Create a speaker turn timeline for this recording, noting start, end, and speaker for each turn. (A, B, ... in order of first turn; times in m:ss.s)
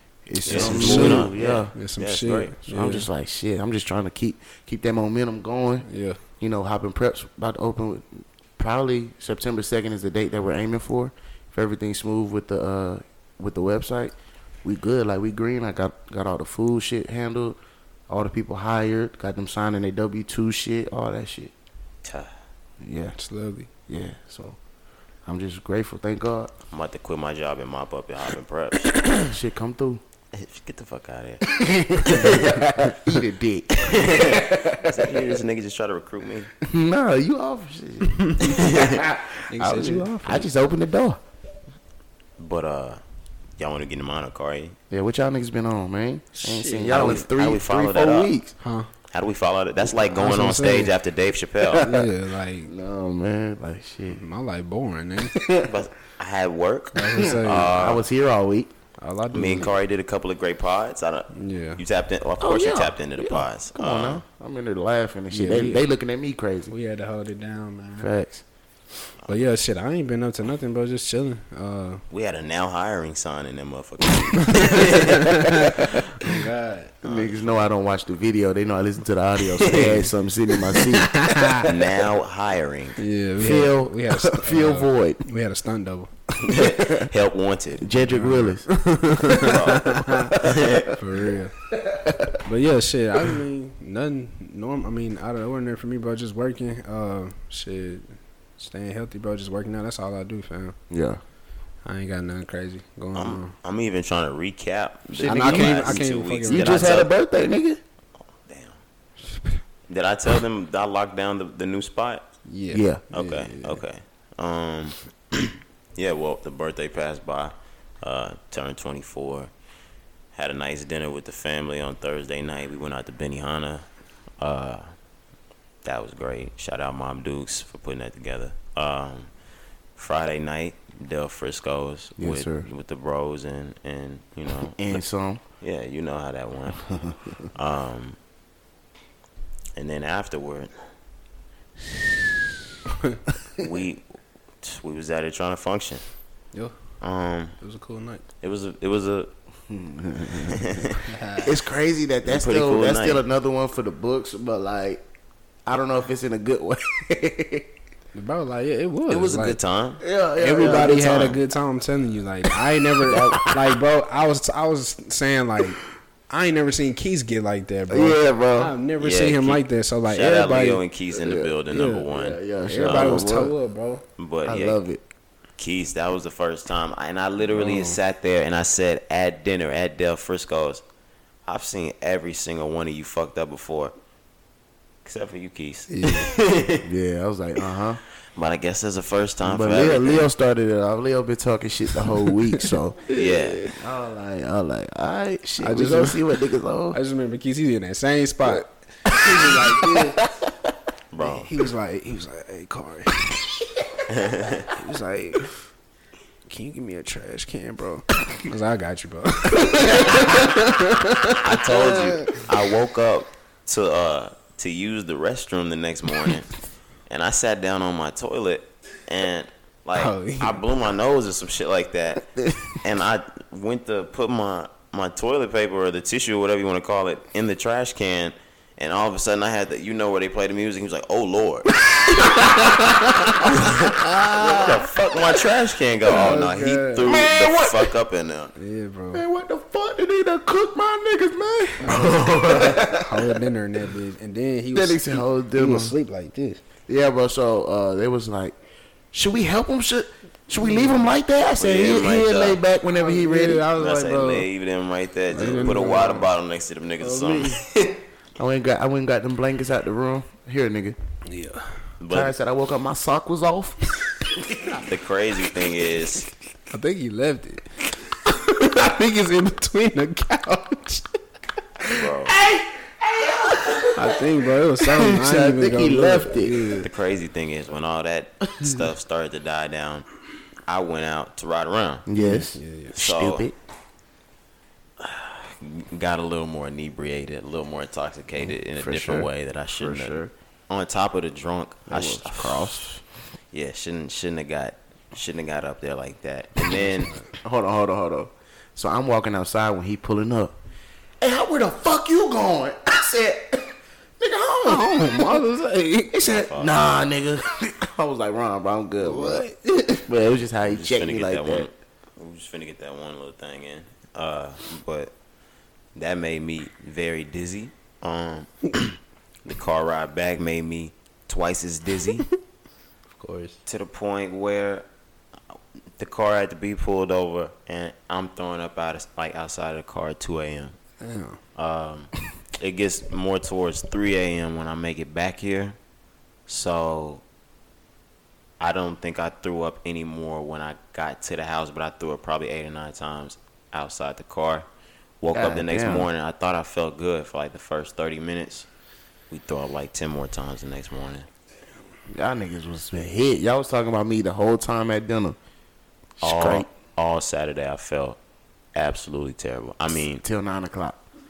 0:00.2-0:01.7 A
0:00.4-0:02.5 B
0:00.4-0:03.1 C
0:02.6-0:05.9 A
0:05.8-0:06.2 C
0:06.4-0:17.6 A
0:18.1-0:21.5 A
0:22.0-0:22.3 B
0:22.8-0:23.2 A
0:23.2-0:23.7 C
0:23.9-0:24.6 A
0:25.2-0:26.5 A
0:26.7-0:29.2 B
0:29.1-0:30.0 A
0:30.3-0:31.5 B
0:31.5-0:35.4 A
0:32.0-0:32.6 B
0:33.8-0:36.5 B
0:36.6-0:41.2 A
0:38.4-0:39.0 B
0:39.5-0:40.4 C
0:42.4-0:43.0 B
0:43.6-0:44.8 B
0:44.9-0:48.5 A
0:46.4-0:47.2 C
0:46.9-0:48.3 B
0:48.6-0:48.9 C
0:49.1-0:51.9 B
0:50.1-0:50.9 C
0:51.6-0:52.1 A
0:51.8-0:52.7 C
0:52.6-0:54.2 A
0:54.1-0:55.4 C
0:55.2-0:55.8 A
0:55.6-0:58.0 B
0:56.9-0:57.7 C
0:57.2-0:58.7 A
0:59.0-0:59.7 C
0:59.3-1:04.2 B
1:01.3-1:01.8 C
1:02.4-1:06.7 A
1:05.3-1:05.8 C
1:06.7-1:08.1 C
1:08.0-1:08.4 A
1:09.2-1:12.0 C
1:12.1-1:16.0 B
1:14.5-1:17.0 C
1:17.0-1:21.6 A
1:17.0-1:17.3 B
1:19.6-1:20.1 C
1:19.7-1:20.0 B
1:20.8-1:21.7 C
1:21.6-1:23.0 B
1:23.0-1:26.1 C
1:23.4-1:25.2 A
1:26.4-1:27.1 A
1:26.4-1:27.9 B
1:27.8-1:28.7 A
1:28.1-1:30.4 C
1:29.3-1:30.9 B
1:30.9-1:31.6 C
1:31.8-1:32.4 A
1:32.4-1:40.8 C
1:40.9-1:41.2 A
1:41.8-1:43.5 C
1:43.1-1:47.1 B
1:45.1-1:47.8 A
1:45.3-1:47.0 C
1:48.5-1:48.8 B
1:49.9-1:52.3 B
1:52.5-1:53.8 C
1:52.7-1:53.0 A
1:53.1-1:59.5 B
2:00.3-2:03.8 B
2:04.4-2:04.9 B
2:05.8-2:09.3 B
2:10.0-2:15.0 B
2:12.2-2:12.7 A
2:14.7-2:15.4 A
2:15.6-2:16.8 B
2:17.5-2:18.2 B
2:19.8-2:20.7 B
2:23.6-2:24.0 B
2:24.6-2:26.0 B
2:27.0-2:27.5 B
2:27.6-2:28.2 C
2:28.4-2:29.3 B
2:29.7-2:30.9 A
2:30.5-2:31.0 B
2:31.0-2:31.5 C
2:31.4-2:35.0 A
2:32.2-2:33.2 B
2:35.6-2:37.7 A
2:38.1-2:39.6 C
2:39.1-2:40.0 B
2:40.0-2:41.3 A
2:40.4-2:50.8 C
2:40.6-2:41.4 B
2:47.9-2:48.7 A
2:49.0-2:53.3 B
2:51.1-2:51.5 A
2:51.7-2:52.1 C
2:52.1-2:53.5 A
2:52.6-2:54.0 C
2:54.2-2:54.8 B
2:54.4-2:55.0 A
2:55.6-3:00.8 B
2:57.5-2:58.0 C
3:01.4-3:03.9 B
3:05.0-3:06.8 B
3:05.9-3:06.3 C
3:06.8-3:08.0 A
3:08.3-3:10.3 B
3:09.4-3:13.1 A
3:13.1-3:13.7 B
3:13.7-3:17.0 A
3:15.6-3:16.2 C
3:16.9-3:20.2 C
3:19.6-3:20.1 A
3:21.1-3:21.5 B
3:21.2-3:23.6 C
3:24.1-3:24.7 B
3:24.7-3:25.5 C
3:26.4-3:32.4 C
3:31.4-3:36.5 B
3:37.1-3:51.7 B
3:39.9-3:40.6 C
3:42.3-3:42.8 A
3:51.9-3:52.4 A
3:52.4-3:53.3 C
3:52.5-3:58.5 B
3:54.0-3:54.6 C
3:54.4-3:54.7 A
3:56.1-3:57.1 C
3:57.0-3:58.0 A
3:58.6-3:59.2 C
3:59.1-4:03.4 A
4:01.9-4:02.8 B
4:02.5-4:06.6 C
4:04.7-4:05.9 A
4:06.9-4:08.6 A
4:09.1-4:13.7 A
4:10.6-4:11.0 C
4:11.6-4:12.6 B
4:12.9-4:14.5 C
4:13.7-4:18.0 B
4:15.3-4:16.3 C
4:15.4-4:15.7 A
4:17.0-4:17.6 C
4:18.4-4:21.0 A
4:21.3-4:21.7 C
4:22.0-4:22.3 B
4:22.1-4:23.9 A
4:24.8-4:26.3 B
4:26.7-4:31.1 C
4:31.9-4:32.4 B
4:32.3-4:34.2 A
4:33.9-4:36.9 C
4:34.8-4:36.8 A
4:36.8-4:40.0 B
4:40.7-4:42.1 B
4:42.1-4:43.5 A
4:42.2-4:43.0 C
4:43.0-4:43.5 B
4:45.0-4:52.8 B
4:48.4-4:50.3 A
4:51.9-4:53.0 A
4:53.5-4:57.1 B
4:57.4-5:00.6 A
5:01.2-5:11.7 A
5:04.9-5:05.4 C
5:06.2-5:06.8 B
5:09.0-5:09.6 C
5:10.6-5:15.1 B
5:15.9-5:22.3 B
5:23.2-5:23.6 C
5:23.6-5:24.8 B
5:26.0-5:30.7 B
5:31.0-5:31.4 C
5:31.5-5:35.8 B
5:36.5-5:37.2 B
5:38.6-5:44.7 B
5:45.2-5:48.7 B
5:45.3-5:46.1 A
5:49.3-5:51.3 B
5:52.1-5:55.4 A
5:56.2-5:56.7 A
5:56.2-5:58.2 B
5:58.7-6:00.2 B
6:00.2-6:01.0 A